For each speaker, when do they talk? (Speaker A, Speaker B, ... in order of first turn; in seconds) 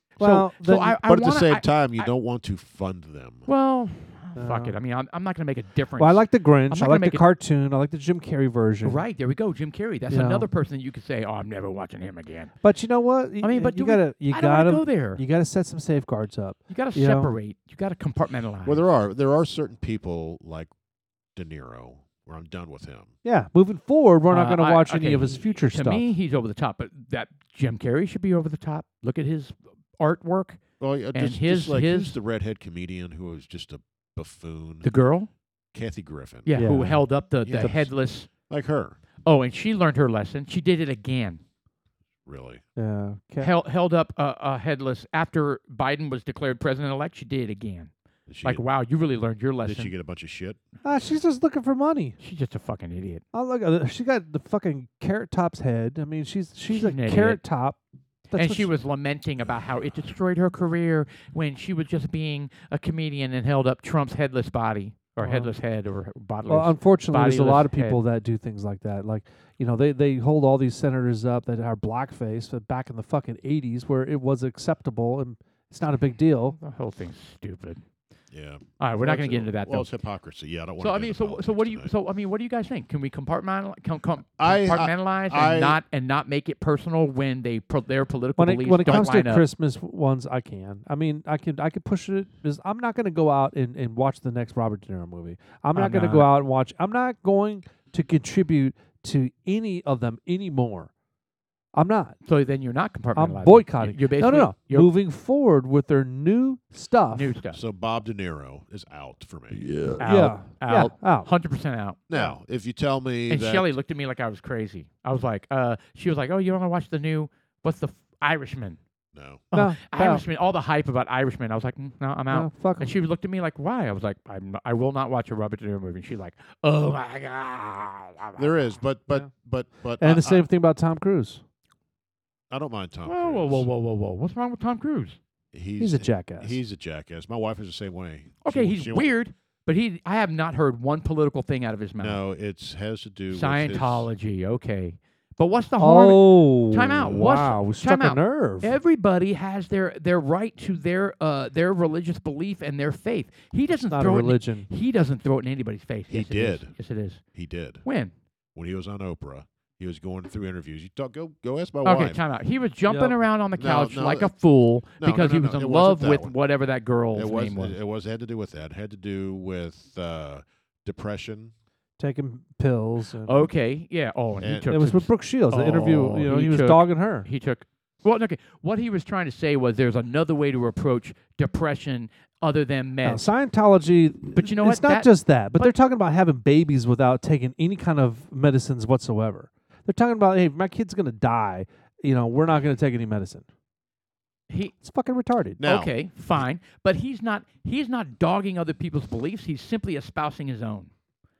Speaker A: 0.2-2.1, 3.5-7.2, 8.8-12.5, 13.4-15.2, 16.7-18.8, 24.3-30.6, 31.1-32.1, 34.8-35.3, 36.5-38.3, 39.2-41.4, 43.4-47.9, 48.4-49.9, 52.2-53.2, 56.7-57.4, 58.3-68.0, 76.5-77.8, 78.8-79.9, 80.8-89.5, 95.7-96.3, 102.2-104.9, 107.1-107.6, 110.0-112.3, 113.3-118.8, 119.5-128.7, 133.1-135.2, 138.4-142.2, 143.3-157.2, 157.8-158.1, 161.8-167.8, 173.2-183.3, 184.3-185.7, 194.5-194.7, 195.6-200.9
Speaker B: 0.2-1.0, 4.3-4.7, 6.0-9.0, 10.1-10.5, 12.6-17.3, 23.2-26.0, 36.5-37.0, 42.8-43.5, 50.8-52.2, 53.3-57.8, 58.3-58.7, 65.2-65.5, 66.5-76.5, 88.4-100.9, 101.7-102.2, 103.2-107.3, 109.6-111.3, 119.5-120.2, 122.3-122.9, 130.0-131.4, 135.8-136.6, 145.8-148.7, 153.9-154.7, 162.9-163.2, 172.0-173.5, 174.7-177.3, 183.0-193.4, 194.8-195.6
Speaker C: 1.0-3.5, 18.6-20.7, 21.3-23.1, 30.8-34.9, 35.7-36.9, 37.4-37.9, 38.5-39.0, 42.2-42.6, 48.3-48.6, 49.6-50.6, 78.3-81.9, 84.4-85.8, 107.5-109.8, 112.1-113.7, 119.1-119.4, 128.4-130.5, 132.5-133.7, 135.5-139.1, 142.0-144.1, 156.1-156.7, 157.3-157.8, 158.5-162.2, 163.6-164.3, 165.0-166.3, 167.1-171.5, 174.4-174.7, 195.6-196.4